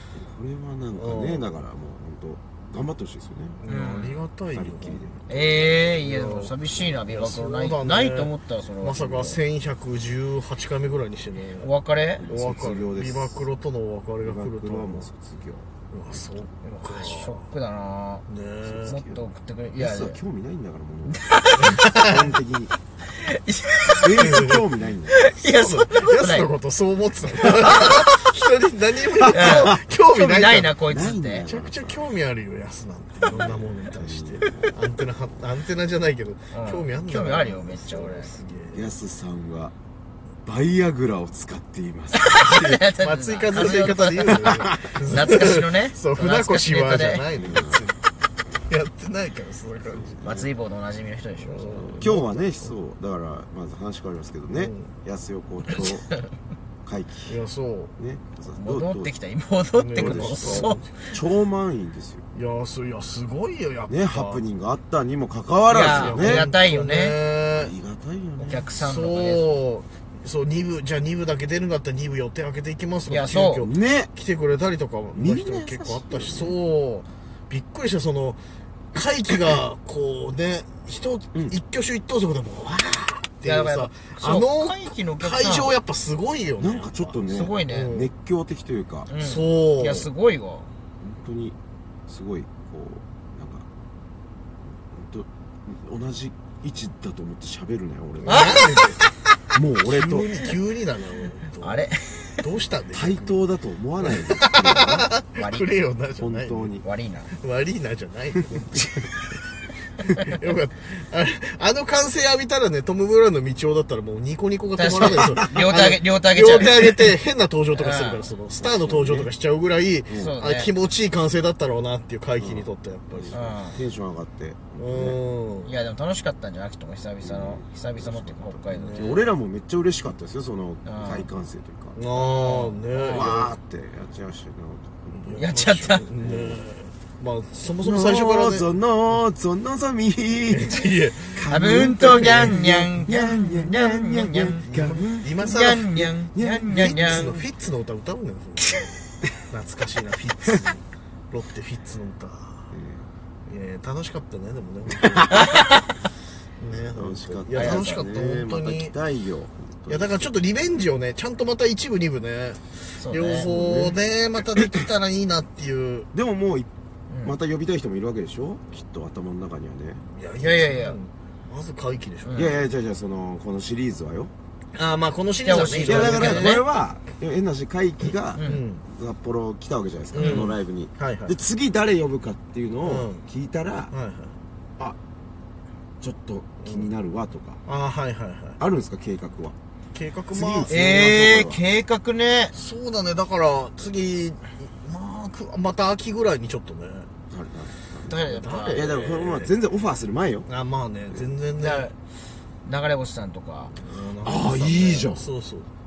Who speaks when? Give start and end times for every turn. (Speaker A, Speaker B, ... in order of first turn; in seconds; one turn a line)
Speaker A: 0.1-3.6
Speaker B: 0.9-1.4
Speaker B: 3.6-11.7
Speaker C: 3.6-4.2
Speaker A: 4.5-5.2
Speaker C: 5.3-9.4
Speaker C: 11.6-12.2
Speaker A: 12.2-13.4
Speaker B: 12.2-15.1
Speaker A: 14.2-15.7
Speaker B: 15.9-17.5
Speaker C: 16.8-18.2
Speaker B: 18.3-19.0
Speaker A: 18.6-22.7
Speaker C: 18.9-20.2
Speaker C: 21.1-21.8
Speaker B: 21.6-22.2
Speaker C: 23.2-24.4
Speaker A: 23.9-25.2
Speaker B: 24.2-24.6
Speaker C: 25.1-26.5
Speaker B: 25.4-30.8
Speaker A: 29.2-29.8
Speaker C: 29.3-31.5
Speaker A: 30.9-32.1
Speaker B: 31.4-38.9
Speaker A: 33.3-34.7
Speaker C: 36.5-38.4
Speaker A: 38.7-39.7
Speaker A: 40.4-42.5
Speaker C: 42.1-47.3
Speaker B: 42.3-48.0
Speaker A: 44.2-45.0
Speaker A: 47.3-47.9
Speaker B: 48.7-50.4
Speaker A: 49.9-50.5
Speaker C: 50.2-52.1
Speaker B: 51.4-52.7
Speaker A: 51.8-56.1
Speaker B: 54.5-54.9
Speaker C: 55.7-56.1
Speaker A: 56.8-57.4
Speaker B: 57.3-57.9
Speaker A: 58.0-59.1
Speaker C: 58.5-61.1
Speaker B: 59.8-61.1
Speaker A: 59.9-62.2
Speaker B: 62.3-64.4
Speaker A: 63.9-66.5
Speaker C: 65.7-67.2
Speaker B: 65.8-67.7
Speaker A: 67.5-68.7
Speaker C: 68.4-69.6
Speaker B: 68.8-78.4
Speaker C: 73.1-73.7
Speaker A: 73.6-74.1
Speaker A: 75.1-76.6
Speaker B: 78.9-87.2
Speaker A: 81.3-81.6
Speaker C: 83.4-85.8
Speaker A: 86.6-89.1
Speaker C: 87.3-88.0
Speaker B: 87.7-88.1
Speaker C: 89.1-90.7
Speaker B: 89.2-90.1
Speaker A: 91.0-91.5
Speaker A: 92.1-93.7
Speaker A: 94.9-98.7
Speaker B: 98.2-99.0
Speaker C: 98.2-98.7
Speaker A: 99.5-100.3
Speaker B: 99.9-101.8
Speaker C: 101.6-102.4
Speaker B: 102.4-103.4
Speaker A: 102.9-105.1
Speaker B: 104.1-106.7
Speaker C: 105.3-105.8
Speaker A: 106.2-106.8
Speaker C: 106.8-107.3
Speaker B: 107.4-109.1
Speaker A: 108.6-109.0
Speaker B: 110.2-123.5
Speaker C: 114.8-117.2
Speaker A: 115.1-115.6
Speaker C: 117.7-118.2
Speaker A: 118.6-119.3
Speaker A: 120.1-120.3
Speaker C: 120.1-120.7
Speaker A: 122.4-125.2
Speaker C: 123.3-123.8
Speaker B: 124.8-125.7
Speaker C: 125.6-129.3
Speaker A: 127.2-128.3
Speaker B: 128.7-129.1
Speaker A: 128.9-132.0
Speaker C: 130.8-131.3
Speaker B: 131.9-133.5
Speaker C: 132.1-133.3
Speaker A: 133.1-135.5
Speaker B: 135.1-138.7
Speaker C: 135.3-136.1
Speaker A: 136.2-136.6
Speaker A: 137.8-147.5
Speaker B: 140.5-142.7
Speaker C: 141.4-144.8
Speaker B: 144.7-145.9
Speaker C: 145.4-147.3
Speaker B: 146.7-148.9
Speaker B: 149.5-152.7
Speaker A: 152.7-153.0
Speaker B: 153.4-155.4
Speaker A: 155.0-155.5
Speaker C: 155.3-155.8
Speaker B: 156.6-158.9
Speaker A: 156.9-160.3
Speaker C: 157.5-158.1
Speaker B: 159.9-166.1
Speaker C: 163.0-163.5
Speaker A: 163.4-164.0
Speaker A: 166.1-166.7
Speaker C: 167.1-167.3
Speaker A: 167.2-170.0
Speaker B: 170.1-172.5
Speaker C: 170.4-171.0
Speaker C: 172.2-172.5
Speaker A: 172.3-174.3
Speaker B: 174.7-176.6
Speaker C: 175.4-176.6
Speaker A: 175.8-183.9
Speaker C: 178.3-178.6
Speaker B: 178.4-178.8
Speaker B: 180.1-181.3
Speaker C: 180.2-180.5
Speaker B: 182.8-183.2
Speaker B: 183.9-184.3
Speaker A: 186.0-187.6
Speaker B: 187.7-188.6
Speaker A: 188.6-189.6
Speaker B: 189.9-190.7
Speaker A: 190.3-191.6
Speaker C: 190.7-192.6
Speaker B: 192.5-197.1
Speaker A: 197.3-200.5
Speaker C: 198.1-198.8
Speaker B: 198.3-199.5
Speaker B: 200.5-201.9
Speaker C: 201.6-201.9
Speaker C: 202.6-203.8
Speaker B: 203.8-205.7
Speaker A: 204.2-205.3